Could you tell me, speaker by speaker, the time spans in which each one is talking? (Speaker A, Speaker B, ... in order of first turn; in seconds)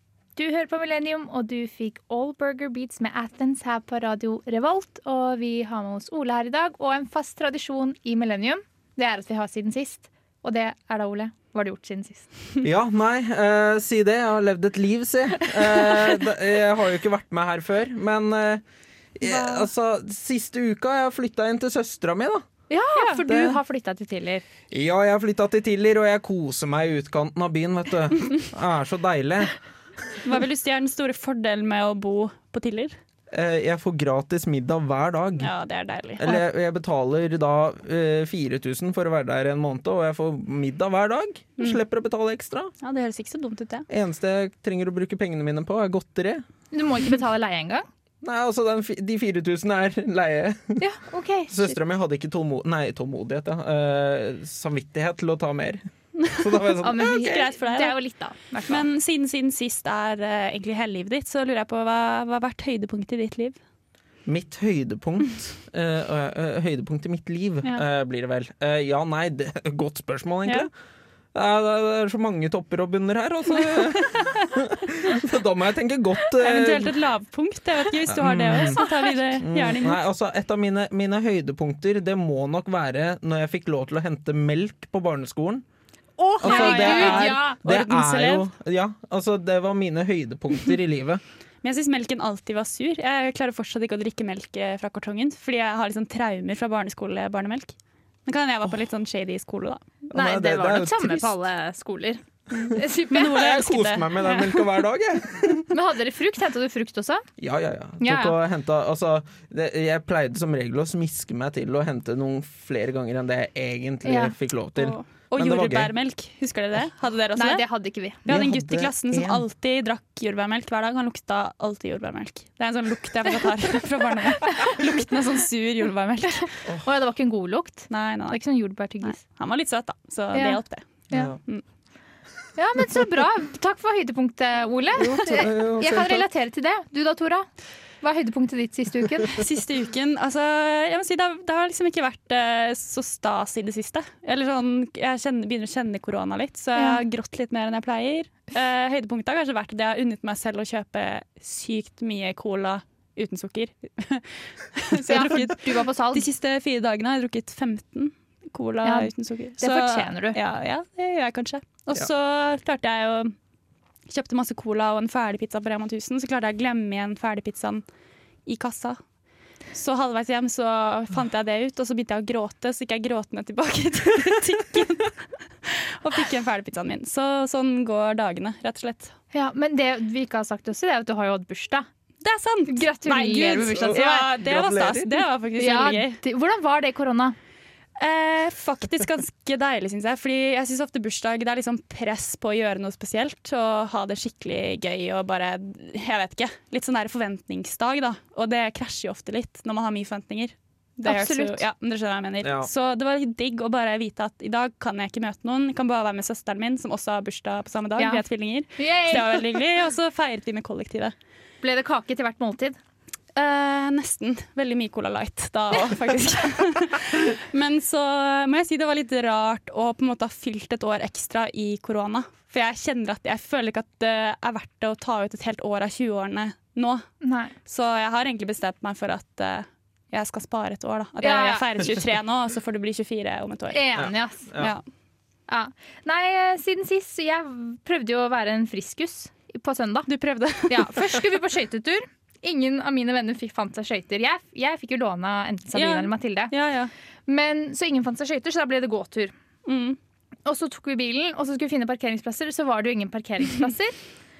Speaker A: 0.3-12.3, 19.2-19.6, 22.7-24.4, 46.7-47.9, 50.8-51.5, 56.8-58.9, 86.2-87.6, 100.1-103.3, 105.7-107.2, 108.0-108.3, 114.0-114.3, 117.3-118.2, 126.8-129.2, 130.3-131.3, 132.6-137.4, 138.0-139.4, 146.7-147.0, 154.9-156.2, 158.8-160.4, 179.3-181.9, 182.7-184.3, 185.6-187.3, 201.1-201.6, 208.0-208.2, 208.8-209.6, 211.6-212.8, 227.2-227.5, 231.2-231.8, 233.7-234.5, 235.5-240.1, 240.7-246.5, 247.3-249.3, 250.4-254.0
Speaker B: 12.6-18.6, 19.2-22.4, 23.2-23.6, 24.7-29.5, 33.3-35.5, 36.2-42.7, 43.9-46.4, 48.2-50.8, 51.5-57.4, 64.2-70.7, 71.3-76.9, 78.1-78.8, 79.4-85.6, 86.4-91.2, 100.1-101.3, 103.3-105.7, 107.4-115.9, 118.3-119.4, 131.1-131.4, 135.0-136.3, 183.6-185.2, 202.4-202.7, 234.0-234.7
Speaker C: 30.2-33.0, 35.4-36.3, 42.8-43.9, 56.2-58.0, 58.7-63.6, 76.3-80.0, 86.4-88.5, 91.6-97.7, 98.2-99.8, 102.5-104.6, 114.8-117.6, 118.2-126.5, 127.9-128.4, 129.0-131.6, 139.3-163.3, 164.1-167.8, 168.4-169.0, 169.7-179.1, 182.2-186.2, 188.0-211.1, 213.3-227.1, 227.6-233.8, 240.1-241.2, 245.7-246.9, 249.7-250.0